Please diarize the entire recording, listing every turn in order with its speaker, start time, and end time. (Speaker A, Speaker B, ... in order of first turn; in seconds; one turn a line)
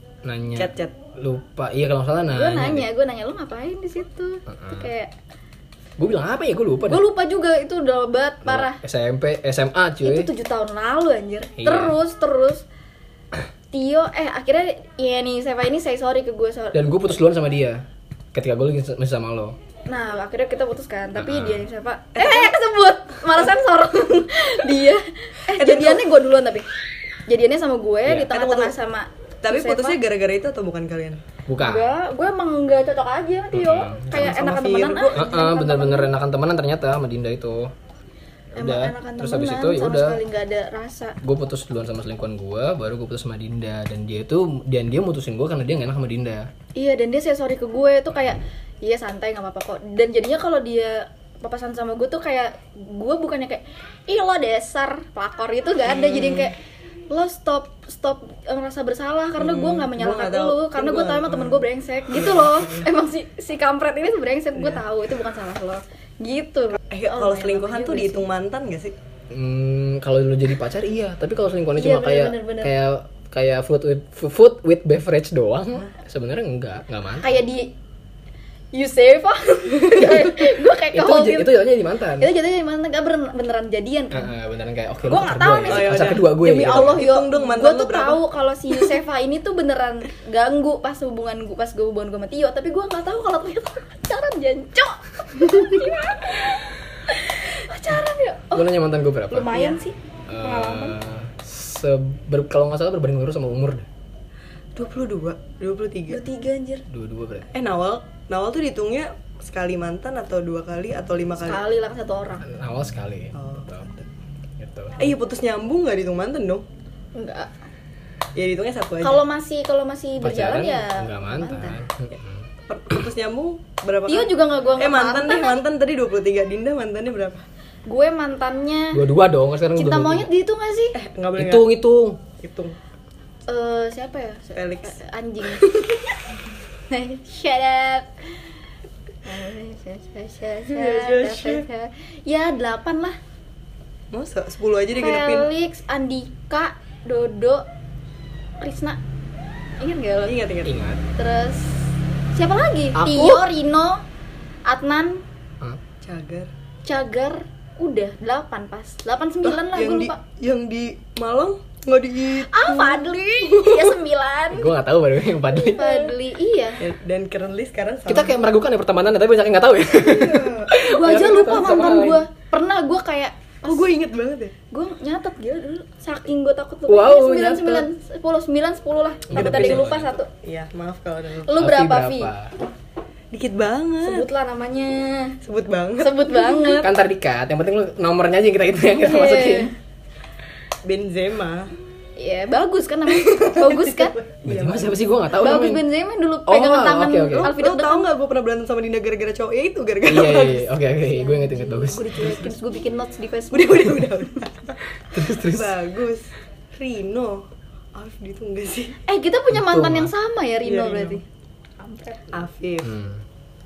Speaker A: 0.2-2.9
Speaker B: 0.6-0.9
Speaker C: 2.3-5.1
Speaker A: 4.5-4.9
Speaker A: 6.0-7.0
Speaker C: 6.9-8.8
Speaker A: 8.4-10.3
Speaker C: 10.0-12.6
Speaker A: 11.6-12.0
Speaker C: 13.7-16.9
Speaker A: 16.7-17.8
Speaker A: 18.3-19.6
Speaker C: 19.9-26.7
Speaker A: 21.1-21.7
Speaker B: 22.1-22.5
Speaker B: 25.5-26.1
Speaker C: 27.3-30.0
Speaker B: 28.3-28.7
Speaker B: 29.4-31.2
Speaker A: 31.5-31.9
Speaker C: 31.6-36.1
Speaker A: 33.5-34.5
Speaker B: 34.1-35.3
Speaker A: 35.1-37.7
Speaker A: 38.5-40.2
Speaker C: 38.6-41.2
Speaker A: 41.2-46.5
Speaker C: 46.8-56.5
Speaker B: 55.9-56.5
Speaker C: 57.1-68.3
Speaker B: 59.4-62.9
Speaker B: 64.5-64.8
Speaker B: 66.9-68.9
Speaker A: 69.3-77.4
Speaker C: 71.8-72.7
Speaker C: 77.2-77.7
Speaker C: 78.7-81.7
Speaker A: 79.9-82.3
Speaker C: 82.2-84.3
Speaker A: 84.1-87.0
Speaker C: 85.0-96.6
Speaker B: 85.7-88.2
Speaker C: 97.1-98.7
Speaker A: 98.5-99.7
Speaker C: 99.3-101.0
Speaker B: 99.5-99.8
Speaker A: 100.3-103.9
Speaker B: 104.8-106.2
Speaker C: 106.1-106.9
Speaker A: 106.9-107.5
Speaker B: 107.5-111.6
Speaker C: 111.4-112.5
Speaker A: 112.4-113.9
Speaker B: 113.3-114.1
Speaker A: 114.6-115.2
Speaker B: 115.0-116.7
Speaker C: 117.2-117.5
Speaker B: 118.4-119.2
Speaker C: 119.0-121.8
Speaker A: 120.2-122.5
Speaker B: 122.7-127.4
Speaker C: 124.1-125.6
Speaker C: 127.9-129.0
Speaker A: 128.9-130.3
Speaker C: 129.7-131.0
Speaker B: 130.9-131.7
Speaker A: 131.4-132.2
Speaker B: 132.4-132.8
Speaker C: 133.5-136.1
Speaker B: 134.6-135.6
Speaker C: 136.9-138.1
Speaker C: 139.2-143.2
Speaker B: 140.7-141.7
Speaker B: 144.1-145.5
Speaker C: 144.9-147.7
Speaker C: 148.6-149.0
Speaker C: 149.8-150.4
Speaker B: 150.2-150.8
Speaker A: 150.6-151.0
Speaker C: 151.2-154.0
Speaker A: 152.9-153.4
Speaker C: 154.7-155.2
Speaker B: 156.0-156.5
Speaker C: 156.9-160.2
Speaker B: 159.4-164.0
Speaker C: 162.5-164.8
Speaker A: 164.5-165.8
Speaker C: 165.6-166.8
Speaker B: 165.6-166.1
Speaker B: 166.8-168.4
Speaker A: 168.1-172.2
Speaker B: 170.0-171.8
Speaker C: 170.8-173.8
Speaker B: 173.7-174.5
Speaker C: 174.7-180.3
Speaker A: 176.9-177.9
Speaker A: 179.3-180.2
Speaker B: 179.3-179.9
Speaker B: 180.4-181.5
Speaker C: 181.5-182.3
Speaker A: 181.6-182.5
Speaker B: 183.3-184.3
Speaker C: 184.0-185.4
Speaker B: 185.4-186.8
Speaker C: 186.0-186.9
Speaker A: 186.8-189.7
Speaker C: 189.0-189.7
Speaker B: 190.8-191.7
Speaker C: 192.2-194.2
Speaker B: 193.1-195.0
Speaker A: 194.4-195.8
Speaker C: 195.3-198.1
Speaker A: 196.5-197.5
Speaker B: 197.4-200.7
Speaker A: 200.1-202.5
Speaker C: 201.0-204.2
Speaker B: 203.5-208.9
Speaker A: 205.1-205.8
Speaker C: 209.1-211.2
Speaker A: 209.5-210.1
Speaker B: 210.7-211.2
Speaker C: 211.8-212.3
Speaker B: 212.3-213.0
Speaker A: 212.8-213.2